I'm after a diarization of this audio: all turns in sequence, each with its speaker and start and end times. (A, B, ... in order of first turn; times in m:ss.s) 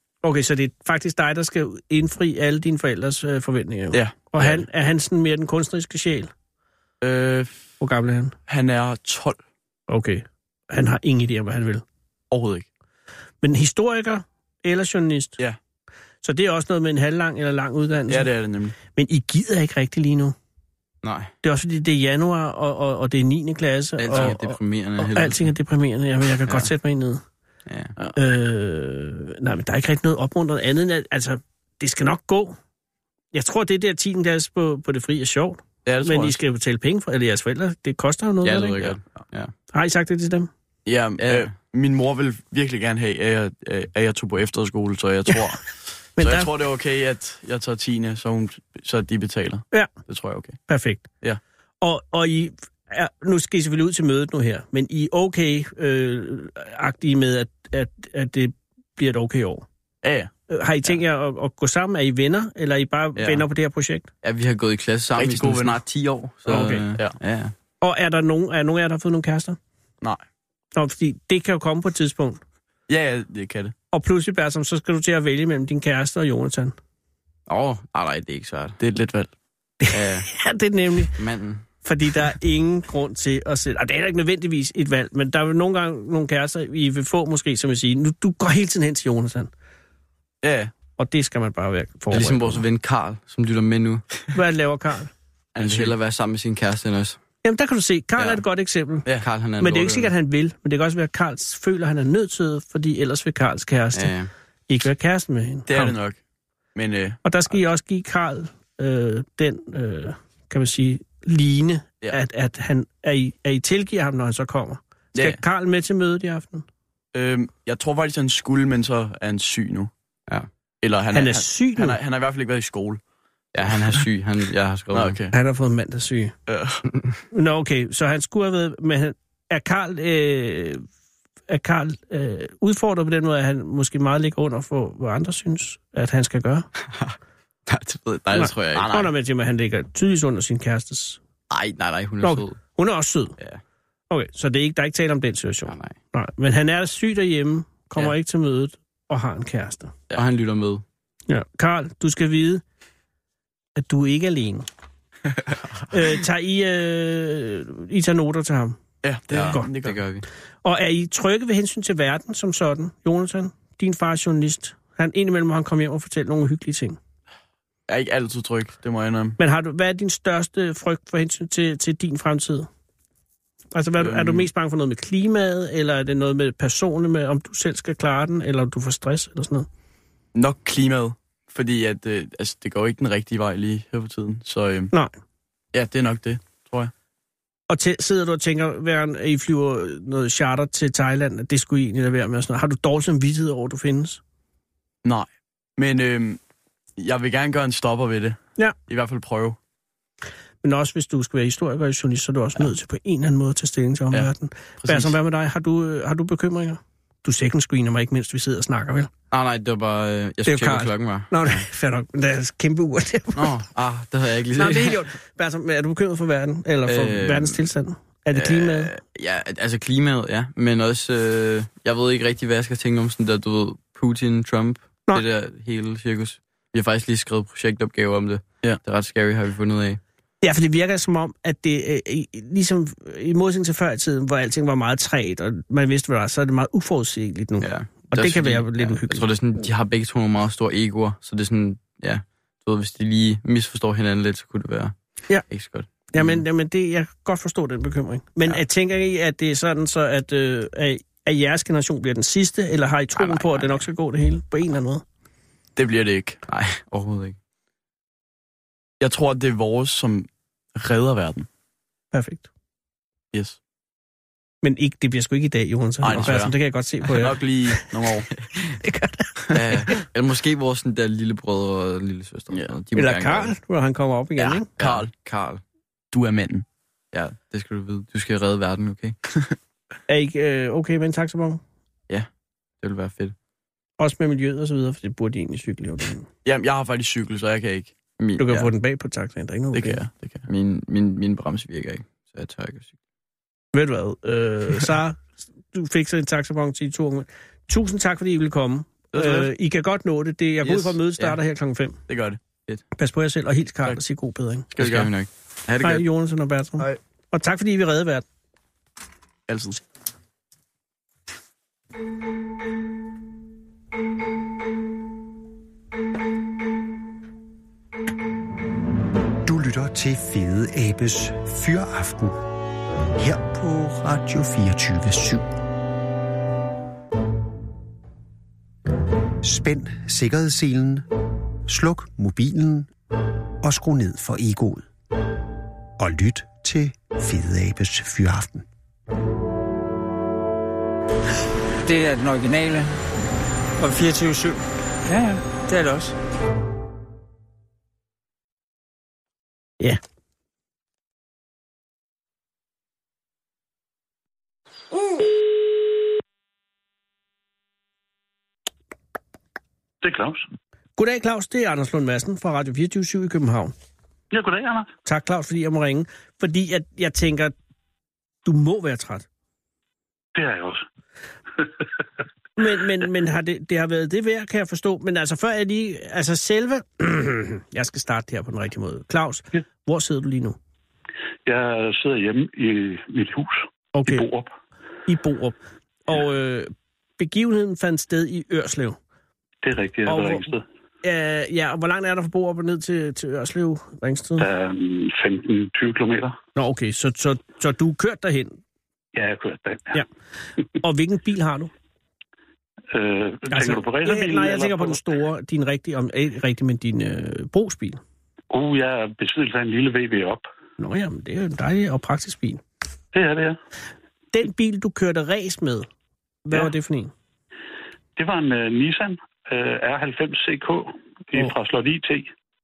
0:00.2-0:06.3 A
0:03.9-0:04.6 B
0:07.0-0:07.7 B
0:07.8-0:08.4 A
0:08.5-0:09.4 B
0:09.9-0:11.8 A
0:12.3-0:12.7 B
0:13.4-0:15.4 A
0:16.2-0:18.3 A
0:18.1-0:18.8 B
0:18.8-0:20.4 A
0:21.0-0:21.3 C
0:21.4-0:27.2 A
0:24.0-0:25.4 C
0:27.7-0:27.9 C
0:28.1-0:32.6 A
0:33.3-0:38.9 A
0:35.8-0:36.4 B
0:38.4-0:39.5 C
0:38.8-0:39.2 B
0:39.7-0:40.5 A
0:40.8-0:50.6 B
0:41.2-0:41.5 C
0:46.2-0:46.5 A
0:50.7-0:51.1 A
0:51.8-0:59.7 A
1:00.0-1:00.3 B
1:00.5-1:04.1 A
1:04.2-1:07.5 C
1:05.2-1:05.8 B
1:06.5-1:06.9 A
1:07.8-1:09.6 A
1:10.7-1:12.4 A
1:12.9-1:13.7 B
1:13.9-1:16.7 A
1:17.5-1:18.8 C
1:18.8-1:19.3 B
1:19.8-1:21.2 A
1:19.9-1:20.3 C
1:21.2-1:21.6 C
1:21.8-1:29.5 A
1:30.4-1:30.7 B
1:31.0-1:32.6 A
1:32.1-1:34.0 C
1:34.3-1:35.1 A
1:35.5-1:36.0 B
1:35.6-1:37.2 C
1:37.4-1:39.1 A
1:38.2-1:38.4 C
1:39.2-1:40.1 C
1:39.6-1:44.1 A
1:43.9-1:44.3 C
1:44.7-1:45.9 A
1:45.7-1:46.2 B
1:46.7-1:47.2 B
1:47.2-1:56.6 A
1:55.1-1:55.4 B
1:57.1-1:59.9 B
2:00.8-2:03.0 B
2:01.1-2:02.0 A
2:03.5-2:05.1 C
2:04.9-2:05.3 B
2:05.3-2:06.3 A
2:06.5-2:06.8 B
2:07.3-2:10.8 A
2:11.5-2:16.7 A
2:16.8-2:17.2 C
2:17.7-2:19.0 C
2:18.3-2:21.2 A
2:18.8-2:19.1 B
2:21.5-2:22.6 C
2:22.2-2:23.3 A
2:24.1-2:30.0 A
2:25.6-2:26.0 C
2:30.1-2:30.8 C
2:31.3-2:32.6 A
2:33.8-2:34.7 A
2:35.9-2:38.8 A
2:39.0-2:40.0 B
2:39.3-2:40.2 C
2:40.6-2:47.0 A
2:47.9-2:49.4 B
2:49.4-2:52.7 A
2:53.7-2:59.7 A
2:54.0-2:54.5 B
3:00.3-3:04.9 B
3:05.7-3:06.9 B
3:07.7-3:14.2 A
3:15.0-3:16.4 B
3:17.0-3:19.6 B
3:20.6-3:29.1 A
3:24.8-3:25.2 B
3:29.3-3:31.6 C
3:30.4-3:33.5 A
3:33.3-3:35.0 C
3:34.6-3:38.9 A
3:36.8-3:37.6 C
3:38.3-3:50.0 C
3:50.4-3:59.3 A
3:57.6-4:04.9 C
4:05.5-4:06.4 C
4:06.1-4:15.0 A
4:13.2-4:13.8 C
4:15.8-4:16.4 B
4:16.4-4:17.4 C
4:19.0-4:21.5 B
4:22.1-4:22.5 A
4:23.3-4:23.6 B
4:24.6-4:27.8 A
4:26.0-4:26.5 B
4:27.2-4:28.3 B
4:28.8-4:30.0 A
4:29.5-4:33.5 C
4:32.5-4:32.8 B
4:32.9-4:34.7 A
4:34.4-4:35.1 B
4:34.8-4:35.6 C
4:36.1-4:36.6 B
4:37.1-4:39.2 C
4:40.1-4:41.6 A
4:42.8-4:43.3 C
4:44.0-4:46.3 A
4:46.4-4:48.0 B
4:48.2-4:48.6 C
4:48.4-4:50.0 A
4:49.7-4:50.4 B
4:50.5-4:52.9 C
4:53.7-5:02.0 A
4:59.1-4:59.5 B
5:00.6-5:01.0 B
5:02.1-5:02.4 B
5:02.9-5:04.7 A
5:04.7-5:05.1 B
5:04.8-5:06.0 C
5:05.8-5:08.2 A
5:09.5-5:09.8 B
5:19.4-5:22.4 D
5:23.2-5:25.4 D
5:29.4-5:31.1 D
5:31.7-5:32.9 D
5:33.6-5:34.8 D
5:36.0-5:38.6 D
5:41.8-5:42.9 E
5:43.8-5:46.2 E
6:00.0-6:00.4 F
6:01.0-6:03.7 A
6:04.3-6:04.9 F
6:05.0-6:07.5 A
6:08.4-6:09.2 A
6:10.3-6:10.8 F
6:12.6-6:20.6 A
6:21.4-6:24.5 F
6:23.9-6:24.2 A
6:25.1-6:29.0 A
6:29.6-6:30.6 F
6:30.0-6:30.5 A
6:31.0-6:34.4 A
6:34.4-6:36.4 F
6:36.5-6:38.6 A
6:39.1-6:40.0 F
6:40.8-6:41.7 A
6:42.9-6:45.0 F
6:43.5-6:48.0 A
6:48.5-6:50.5 F
6:50.8-6:52.6 A
6:53.1-6:53.6 F
6:54.3-6:55.9 A
6:56.4-6:57.1 A
6:58.2-7:02.3 F